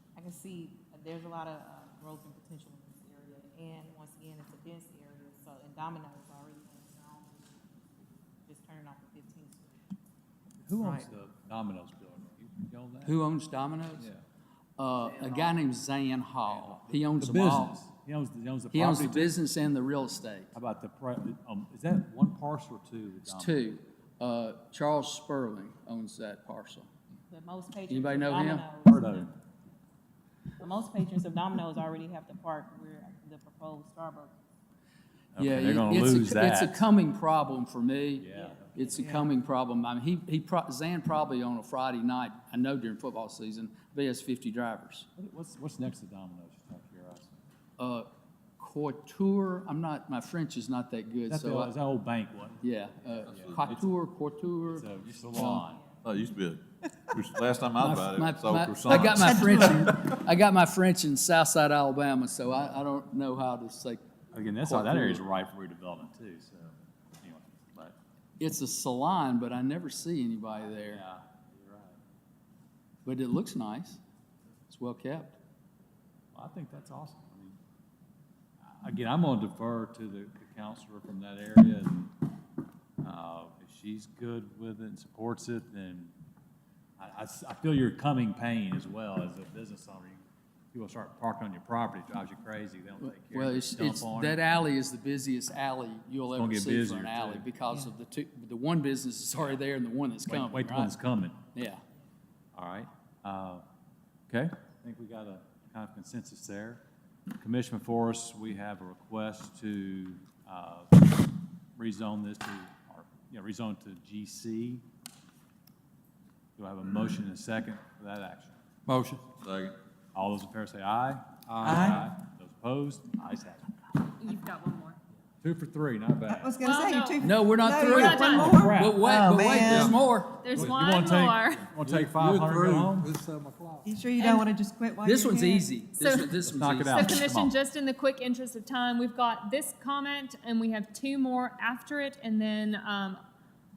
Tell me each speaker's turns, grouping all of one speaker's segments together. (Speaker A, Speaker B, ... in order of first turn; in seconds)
Speaker A: 0.1-7.5, 8.4-9.8, 27.3-29.3, 30.6-34.3, 38.3-39.0
Speaker B: 10.6-13.2, 16.4-19.4, 20.5-23.6, 28.9-29.3, 35.3-36.9, 38.2-39.1, 45.2-47.4, 51.3-53.8, 54.7-55.9, 57.1-59.9, 64.3-68.0, 70.7-72.0, 76.3-77.6, 78.6-82.1, 83.0-86.1, 87.0-94.4, 96.3-97.5, 100.3-101.4, 102.5-103.6, 104.3-106.8, 107.4-114.8, 116.6-118.6, 120.1-124.0, 125.4-126.5, 128.3-129.1, 130.5-133.2, 136.4-137.5
Speaker C: 13.0-14.1, 14.8-17.8, 18.7-20.5, 23.3-26.9, 27.9-28.6, 35.4-45.1, 47.8-51.7, 52.6-55.7, 57.8-64.1, 64.6-65.2, 68.4-71.0, 73.0-74.0, 74.7-75.4, 93.0-101.0, 101.5-101.8, 127.2-130.7, 135.0-137.3
Speaker D: 56.0-56.6, 57.1-59.2, 119.3-119.7, 129.7-129.9, 131.8-133.9
Speaker E: 124.2-125.0, 126.6-128.6, 130.4-131.8, 136.0-136.3, 136.9-143.2
Speaker F: 126.3-129.9, 133.8-135.6